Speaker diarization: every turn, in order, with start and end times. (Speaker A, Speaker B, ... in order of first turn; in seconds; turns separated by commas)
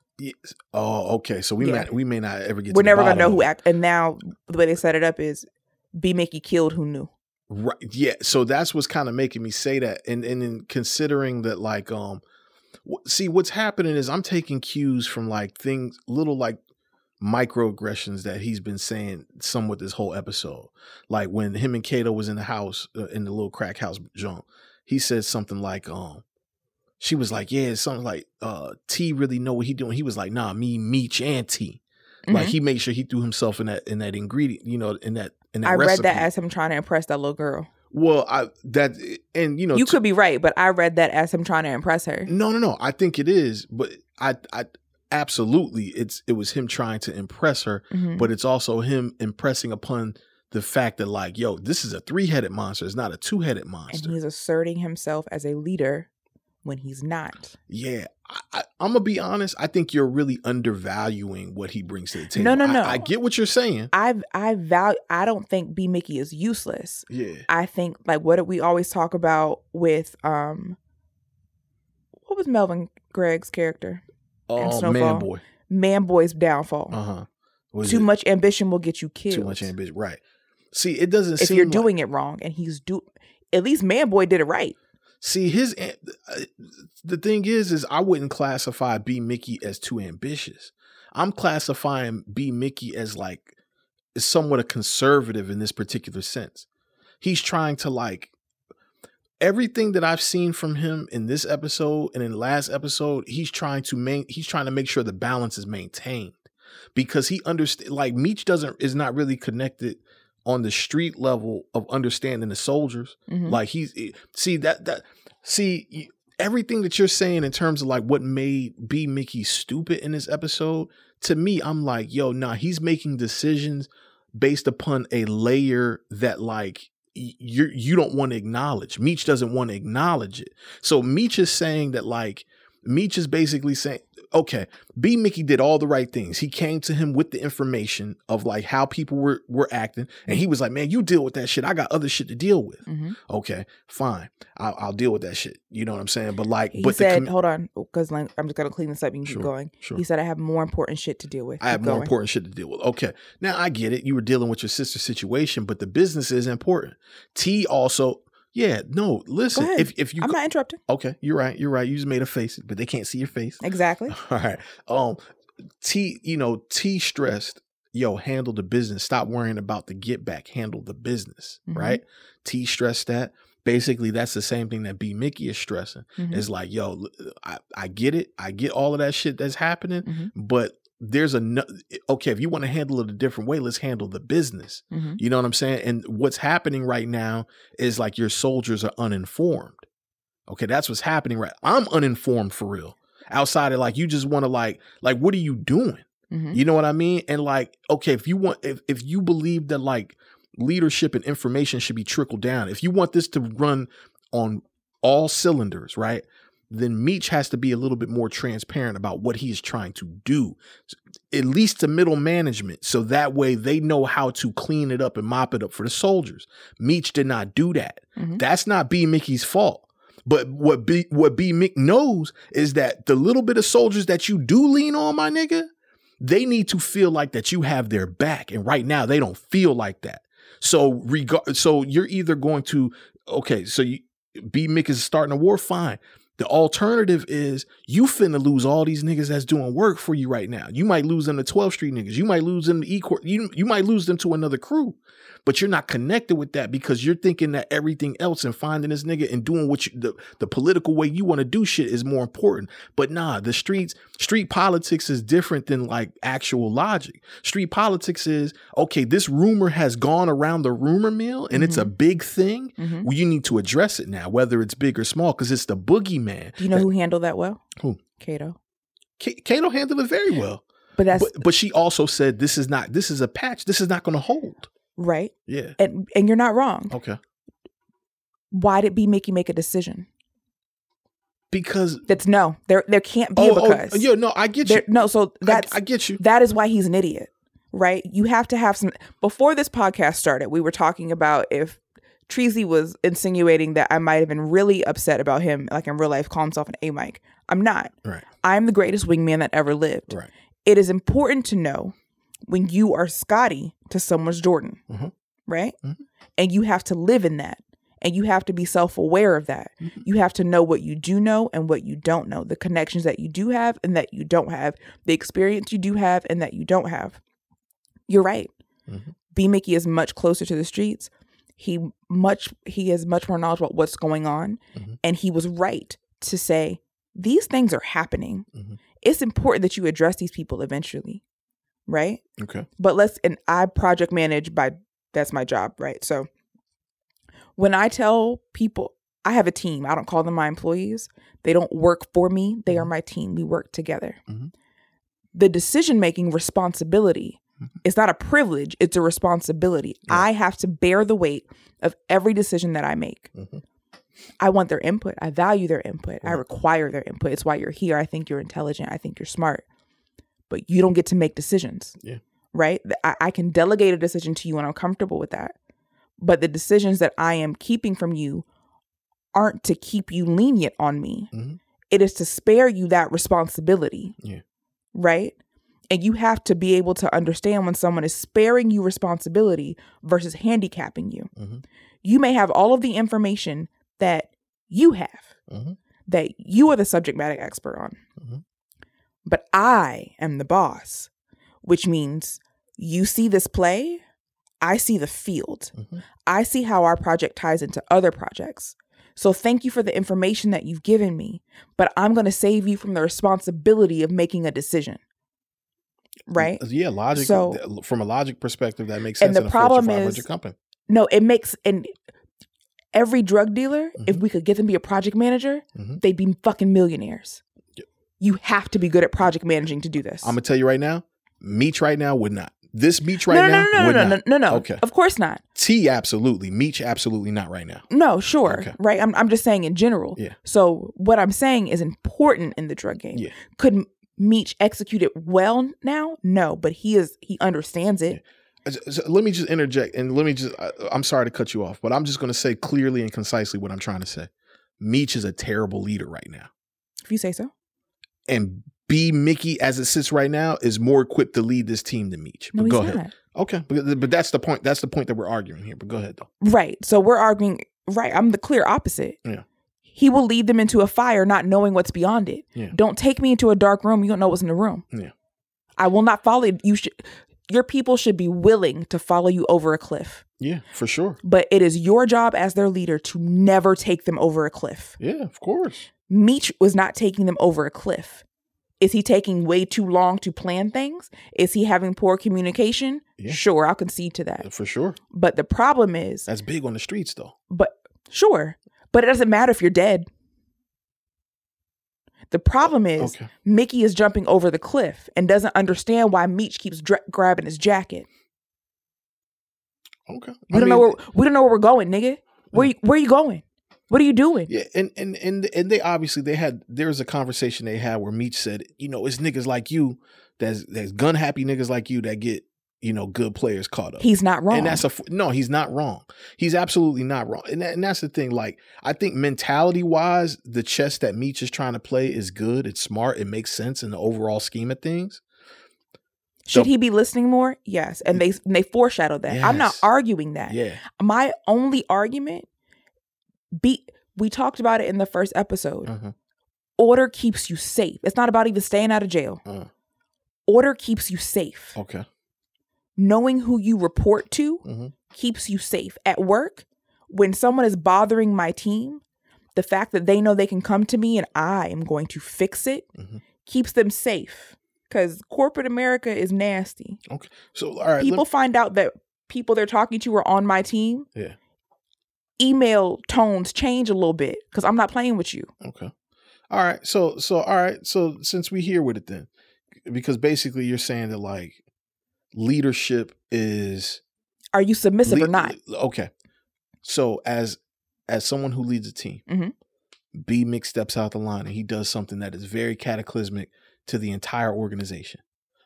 Speaker A: 0.2-3.5, Speaker B: 1.6-1.9, Speaker B: 2.7-7.1, Speaker A: 7.5-12.2, Speaker A: 12.8-16.6, Speaker A: 17.2-26.2, Speaker A: 27.0-36.3, Speaker B: 32.3-32.5, Speaker B: 35.6-37.7, Speaker A: 37.9-40.0, Speaker B: 39.7-42.3, Speaker A: 42.3-54.1, Speaker B: 47.9-48.3, Speaker B: 53.9-56.1, Speaker B: 56.6-57.5, Speaker A: 57.7-63.9, Speaker B: 62.3-63.1, Speaker B: 63.9-70.8, Speaker A: 67.1-67.5, Speaker B: 72.3-74.0, Speaker A: 74.5-75.4, Speaker B: 74.6-77.0, Speaker A: 76.9-78.1, Speaker B: 77.8-79.7, Speaker A: 79.3-80.2, Speaker A: 80.7-81.9, Speaker B: 81.4-84.8, Speaker A: 85.2-93.5, Speaker A: 94.2-96.7, Speaker A: 97.2-98.3, Speaker A: 99.4-147.3, Speaker B: 113.3-113.6, Speaker B: 142.9-143.2, Speaker B: 146.7-152.1, Speaker A: 149.3-150.0, Speaker A: 151.6-165.2, Speaker B: 159.6-160.8, Speaker B: 163.6-164.2, Speaker A: 165.8-189.9, Speaker B: 171.7-172.0, Speaker B: 176.2-176.4, Speaker B: 180.1-180.3, Speaker B: 184.9-185.2, Speaker A: 190.5-225.7, Speaker B: 196.3-196.6, Speaker B: 218.2-218.4, Speaker A: 226.2-266.9, Speaker B: 261.5-261.9, Speaker B: 262.8-263.1, Speaker B: 266.6-267.6, Speaker B: 268.2-268.6, Speaker A: 269.2-270.6, Speaker B: 271.0-271.4, Speaker A: 271.1-274.7, Speaker B: 275.0-276.9, Speaker A: 275.5-275.8, Speaker A: 276.9-277.2, Speaker B: 278.5-280.1, Speaker A: 281.5-282.1, Speaker B: 282.1-284.1, Speaker A: 283.4-286.2, Speaker B: 284.6-301.9, Speaker B: 302.5-304.8, Speaker B: 305.5-305.8, Speaker B: 306.4-317.2, Speaker B: 318.1-318.5, Speaker A: 318.9-319.1, Speaker B: 319.3-328.5, Speaker A: 328.5-328.8, Speaker B: 329.0-331.2, Speaker B: 331.9-332.2, Speaker A: 332.4-332.7, Speaker B: 332.8-336.3, Speaker B: 337.6-344.2, Speaker B: 345.3-353.3, Speaker A: 353.4-353.6, Speaker B: 354.4-359.6, Speaker B: 360.5-362.0, Speaker B: 362.5-365.6, Speaker B: 366.2-368.4, Speaker B: 369.3-371.3, Speaker A: 371.3-371.6, Speaker B: 371.9-374.1, Speaker B: 374.9-375.4, Speaker B: 375.9-381.3, Speaker A: 381.4-381.6, Speaker B: 382.0-385.3, Speaker A: 385.5-385.8, Speaker B: 386.1-388.0, Speaker B: 389.2-391.1, Speaker B: 391.6-394.0, Speaker B: 394.6-405.0, Speaker A: 395.8-396.0, Speaker B: 406.3-407.6, Speaker A: 406.4-410.6, Speaker B: 409.2-410.3, Speaker B: 410.9-412.0, Speaker B: 412.9-417.4, Speaker A: 415.8-416.0, Speaker B: 418.2-420.4, Speaker A: 420.2-424.8, Speaker B: 423.3-425.4, Speaker A: 425.6-427.8, Speaker B: 427.9-438.2, Speaker A: 428.5-428.7, Speaker A: 438.1-446.5, Speaker B: 447.0-447.5, Speaker A: 448.3-456.3, Speaker B: 452.6-453.1, Speaker B: 456.4-459.2, Speaker B: 459.9-464.9, Speaker B: 465.8-470.2, Speaker A: 470.4-471.2, Speaker B: 471.2-475.0, Speaker A: 475.0-475.9, Speaker B: 476.1-478.2, Speaker B: 478.8-484.5, Speaker A: 484.4-485.0, Speaker B: 485.1-486.3, Speaker A: 486.3-487.4, Speaker B: 487.5-490.1, Speaker B: 492.3-498.1, Speaker A: 493.0-493.3, Speaker A: 500.1-500.9, Speaker B: 500.5-504.5, Speaker A: 504.5-525.2, Speaker B: 514.0-514.8, Speaker B: 526.5-532.5, Speaker A: 529.3-529.9, Speaker A: 530.5-530.8, Speaker B: 533.5-535.9, Speaker A: 535.9-536.1, Speaker B: 536.8-539.4, Speaker B: 540.5-541.8, Speaker A: 541.8-542.1, Speaker B: 543.0-549.0, Speaker A: 544.6-544.9, Speaker B: 549.5-552.9, Speaker A: 553.0-553.2, Speaker B: 553.5-557.0, Speaker A: 557.1-558.2, Speaker B: 558.0-561.1, Speaker B: 562.4-565.5, Speaker A: 565.6-565.9, Speaker A: 566.5-569.3, Speaker A: 569.8-571.6, Speaker A: 572.3-574.0, Speaker B: 574.5-575.6, Speaker A: 575.1-576.1, Speaker A: 576.8-579.2, Speaker B: 579.3-579.5, Speaker A: 580.1-585.2